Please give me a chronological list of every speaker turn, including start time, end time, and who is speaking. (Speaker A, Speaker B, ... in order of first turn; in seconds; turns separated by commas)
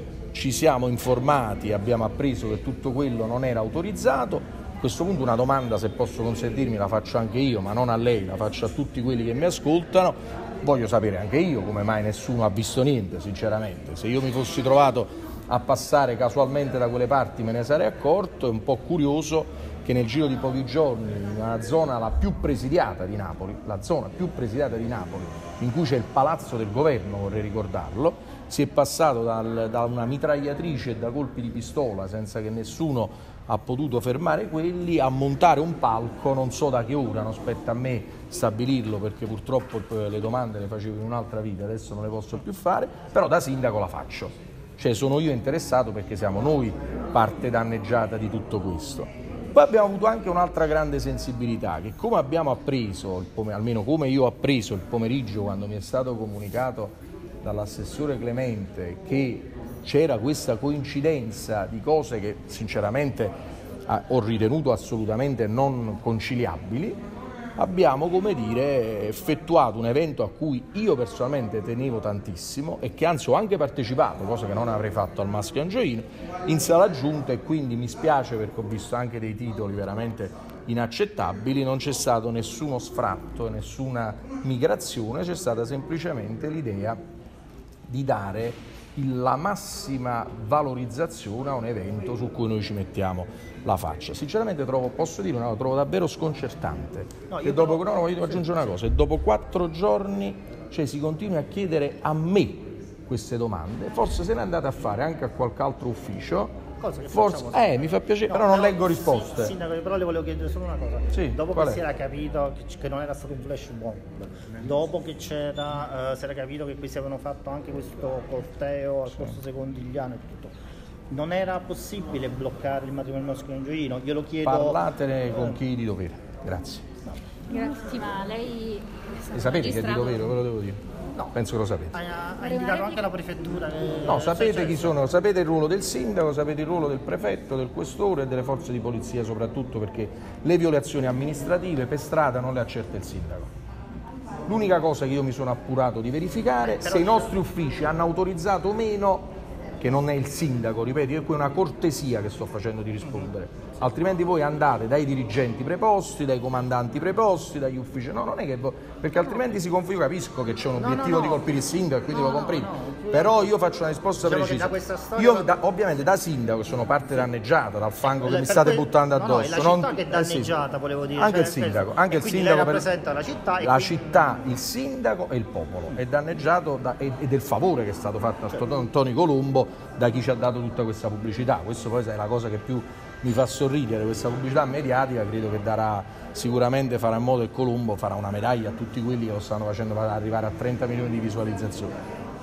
Speaker A: 0.3-63.4, Speaker A: 63.9-67.0, Speaker A: 67.6-87.0, Speaker A: 87.9-106.5, Speaker B: 97.3-98.7, Speaker B: 106.8-120.5, Speaker A: 107.1-109.5, Speaker A: 111.1-111.8, Speaker B: 121.1-125.5, Speaker A: 124.4-126.8, Speaker C: 127.5-130.2, Speaker A: 129.3-130.8, Speaker A: 131.3-131.9, Speaker B: 131.9-135.0, Speaker C: 132.4-133.0, Speaker A: 134.1-143.5, Speaker A: 144.5-170.5, Speaker B: 146.6-147.4, Speaker B: 160.8-161.4, Speaker B: 162.1-163.5, Speaker B: 164.2-165.5, Speaker B: 168.1-174.4, Speaker A: 171.2-172.9, Speaker A: 173.6-191.9